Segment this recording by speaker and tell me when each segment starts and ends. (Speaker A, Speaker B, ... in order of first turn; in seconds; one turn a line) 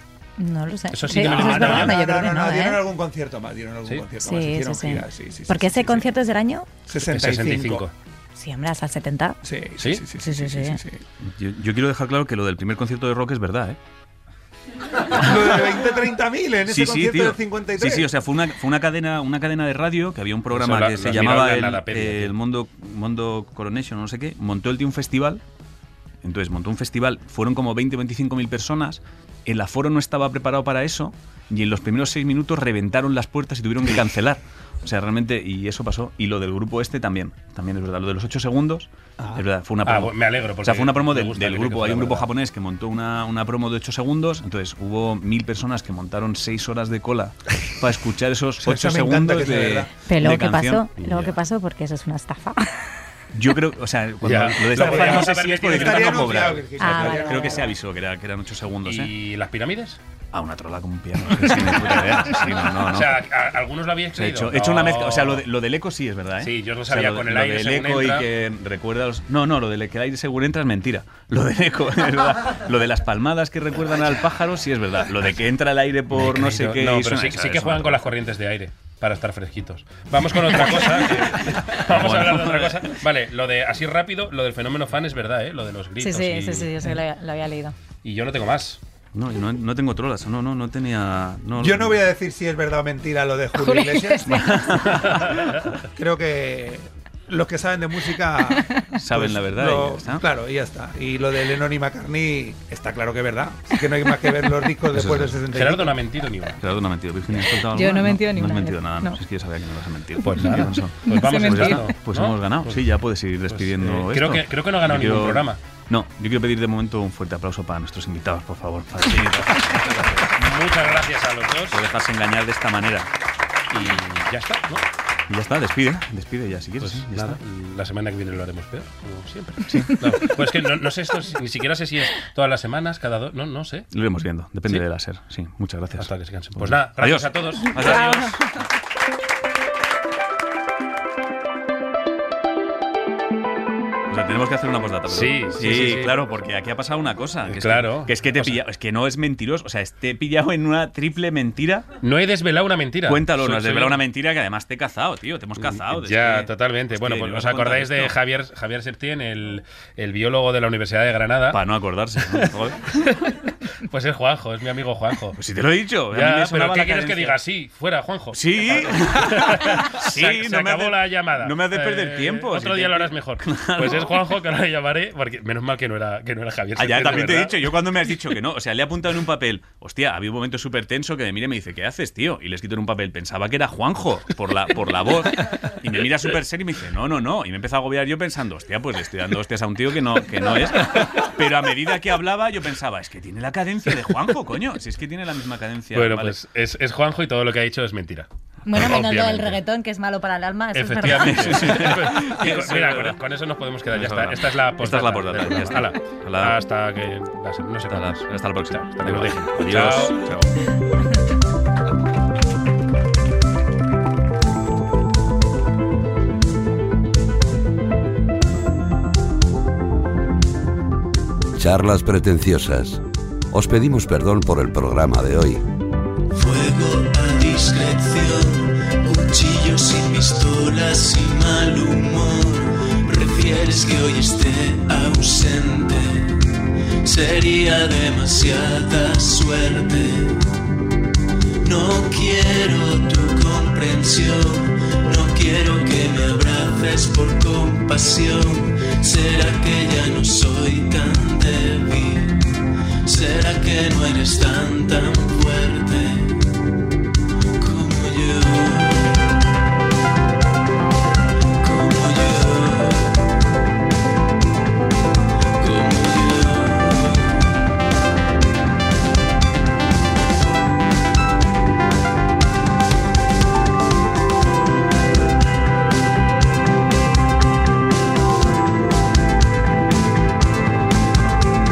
Speaker A: 0.4-2.8
Speaker B: 0.9-1.9
Speaker C: 1.1-6.1
Speaker A: 4.2-6.7
Speaker C: 6.9-7.8
Speaker B: 7.1-7.9
Speaker A: 8.3-9.4
Speaker C: 9.4-11.0
Speaker A: 10.1-10.8
Speaker D: 11.2-13.8
Speaker C: 15.1-18.1
Speaker D: 16.6-25.4
Speaker B: 20.5-22.3
Speaker D: 26.2-51.3
Speaker B: 39.8-42.3
Speaker C: 48.6-49.9
Speaker A: 50.1-52.8
Speaker B: 51.0-51.3
Speaker D: 53.3-59.1
Speaker B: 54.2-56.6
Speaker C: 54.7-57.7
Speaker A: 56.8-57.6
Speaker B: 58.8-60.0
Speaker D: 60.3-63.2
Speaker B: 61.9-65.4
Speaker D: 64.1-78.1
Speaker B: 66.4-68.2
Speaker B: 76.1-86.7
Speaker D: 80.3-82.9
Speaker A: 86.0-87.7
Speaker B: 88.0-88.8
Speaker D: 89.1-92.0
Speaker C: 91.6-94.6
Speaker A: 93.5-94.6
Speaker D: 94.3-95.3
Speaker B: 95.0-95.7
Speaker C: 96.0-106.0
Speaker D: 99.0-100.2
Speaker D: 104.9-105.4
Speaker B: 105.5-106.6
Speaker D: 106.6-120.3
Speaker A: 107.8-109.2
Speaker B: 110.2-112.9
Speaker A: 111.0-111.9
Speaker B: 113.5-115.6
Speaker B: 119.8-121.8
Speaker D: 121.7-123.1
Speaker B: 123.7-124.8
Speaker D: 125.3-127.4
Speaker B: 126.8-133.9
Speaker D: 129.7-130.0
Speaker D: 133.9-138.4
Speaker B: 136.0-138.4
Speaker D: 144.1-151.9
Speaker B: 145.1-146.2
Speaker B: 147.4-148.6
Speaker B: 152.0-154.0
Speaker D: 153.1-158.2
Speaker B: 155.6-161.6
Speaker D: 161.5-162.9
Speaker B: 162.3-165.4
Speaker D: 165.4-167.4
Speaker B: 166.1-177.7
Speaker D: 168.3-174.3
Speaker D: 176.8-196.4
Speaker B: 195.9-199.6
Speaker A: 198.7-201.8
Speaker B: 200.7-210.3
Speaker D: 201.1-203.2
Speaker D: 203.9-206.6
Speaker D: 207.9-210.5
Speaker E: 221.6-223.0
Speaker E: 223.5-225.6
Speaker F: 226.3-236.4
Speaker F: 237.0-240.4
Speaker F: 241.6-256.4
Speaker F: 257.6-259.3
Speaker F: 261.6-263.2
Speaker F: 265.6-267.5